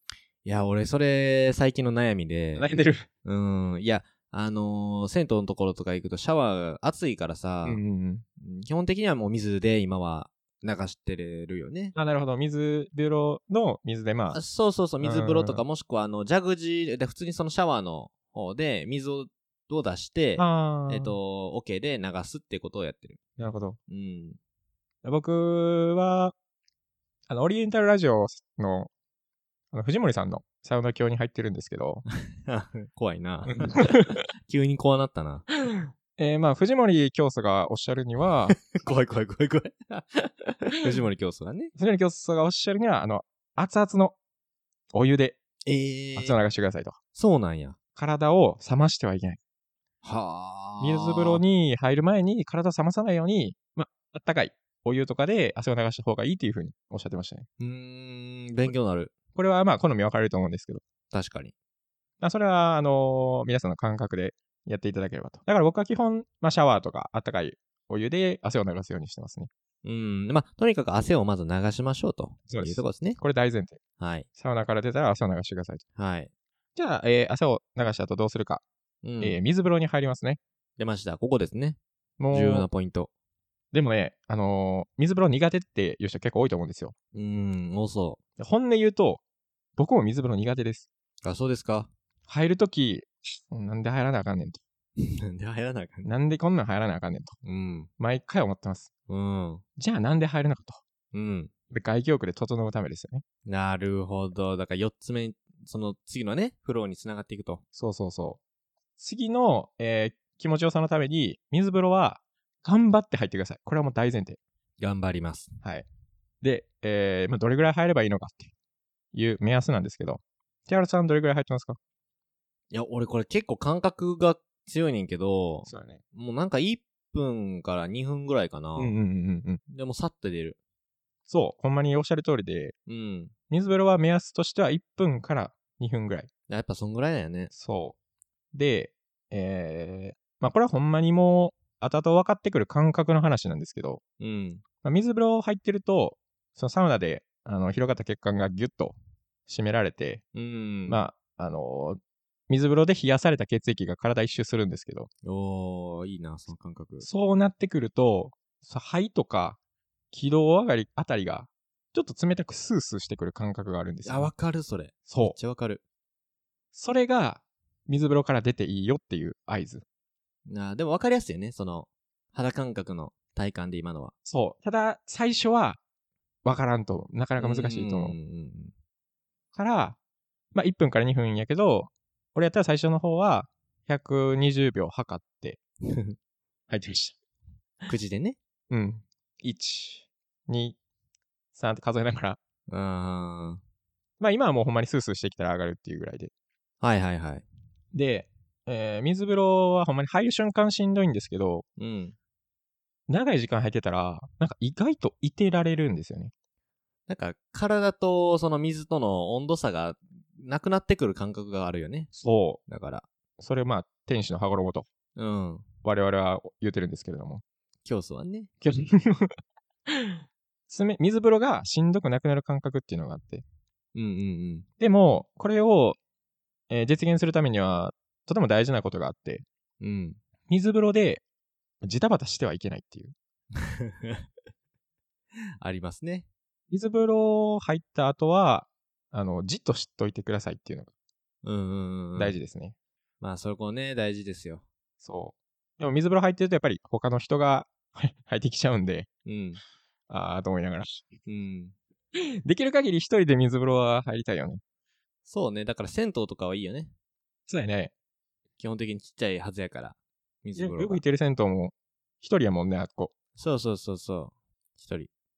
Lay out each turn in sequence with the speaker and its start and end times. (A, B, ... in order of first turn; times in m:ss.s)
0:00.4-0:02.7 A
0:02.6-0:03.1 B
0:03.2-0:07.8 A
0:07.6-0:08.2 B
0:08.4-0:11.9 A
0:12.0-0:14.4 B
0:14.3-0:23.2 A
0:15.0-0:15.6 B
0:20.4-0:21.2 B
0:23.4-0:23.8 B
0:23.9-0:24.4 A
0:25.0-0:26.3 B
0:27.3-0:28.9 B
0:29.7-0:32.0 B
0:32.3-0:35.5 A
0:33.7-0:34.2 B
0:36.2-0:38.6 B
0:38.5-0:41.7 A
0:41.8-0:44.2 B
0:44.9-0:45.4 B
0:45.7-0:46.4 A
0:46.2-0:47.0 B
0:47.1-0:47.8 A
0:48.0-0:49.4 B
0:50.0-0:51.4 A
0:50.8-0:57.5 B
0:57.6-0:59.1 A
0:59.4-1:00.8 B
1:01.1-1:01.5 A
1:02.2-1:09.5 B
1:09.8-1:13.2 A
1:12.5-1:13.8 B
1:14.0-1:14.3 A
1:14.4-1:15.8 B
1:16.0-1:16.3 A
1:16.8-1:18.6 B
1:19.0-1:19.4 A
1:19.2-1:20.4 B
1:20.8-1:21.8 A
1:22.2-1:22.7 B
1:22.3-1:23.1 A
1:23.7-1:26.9 B
1:27.1-1:28.2 A
1:28.4-1:29.2 B
1:29.8-1:30.9 B
1:31.2-1:31.9 A
1:32.3-1:34.6 B
1:35.0-1:36.1 A
1:36.0-1:37.4 B
1:37.4-1:37.9 A
1:38.0-1:38.9 B
1:39.1-1:39.6 A
1:39.8-1:40.8 B
1:41.1-1:41.5 A
1:41.7-1:43.2 B
1:43.5-1:47.6 A
1:47.8-1:48.4 B
1:49.0-1:54.4 B
1:54.8-1:55.6 A
1:56.4-1:58.5 B
1:59.1-2:01.8 B
2:02.7-2:09.0 A
2:05.7-2:06.0 B
2:08.8-2:09.6 B
2:09.7-2:10.6 A
2:11.3-2:12.8 B
2:12.9-2:13.3 A
2:13.5-2:16.3 B
2:16.5-2:17.5 A
2:17.5-2:18.0 B
2:18.5-2:24.0 B
2:24.2-2:24.6 A
2:24.8-2:29.0 B
2:29.5-2:30.2 B
2:30.3-2:31.0 A
2:30.9-2:35.1 B
2:35.2-2:37.1 A
2:37.0-2:39.6 B
2:40.1-2:44.3 B
2:44.0-2:45.8 A
2:45.1-2:45.4 B
2:46.7-2:49.8 B
2:50.5-2:54.1 A
2:54.2-2:55.8 B
2:56.4-2:58.2 B
2:57.4-2:58.7 A
2:59.6-3:00.0 B
3:00.5-3:05.6 B
3:05.9-3:06.2 A
3:06.7-3:07.2 B
3:07.9-3:08.4 A
3:08.7-3:10.8 B
3:11.6-3:12.4 B
3:12.7-3:13.6 A
3:14.2-3:16.3 B
3:16.8-3:17.4 A
3:17.9-3:21.7 B
3:21.8-3:22.2 A
3:23.1-3:26.3 B
3:27.1-3:32.1 A
3:32.2-3:32.6 B
3:32.7-3:33.1 A
3:33.4-3:34.9 B
3:35.2-3:35.7 A
3:35.8-3:37.4 B
3:37.8-3:38.5 A
3:38.6-3:39.4 B
3:39.9-3:43.4 B
3:44.0-3:44.7 A
3:44.8-3:46.0 B
3:46.7-3:49.4 B
3:49.8-3:50.2 A
3:50.5-3:51.2 B
3:51.8-3:53.1 B
3:53.6-3:54.3 A
3:55.6-3:56.3 A
3:56.7-4:00.9 B
4:01.4-4:02.4 A
4:02.2-4:02.8 B
4:03.2-4:04.6 A
4:05.0-4:09.1 B
4:09.3-4:09.6 A
4:10.1-4:11.1 B
4:11.3-4:11.8 A
4:12.2-4:14.6 B
4:15.3-4:16.9 A
4:17.5-4:17.9 B
4:18.6-4:21.0 A
4:20.6-4:23.1 B
4:23.4-4:25.1 A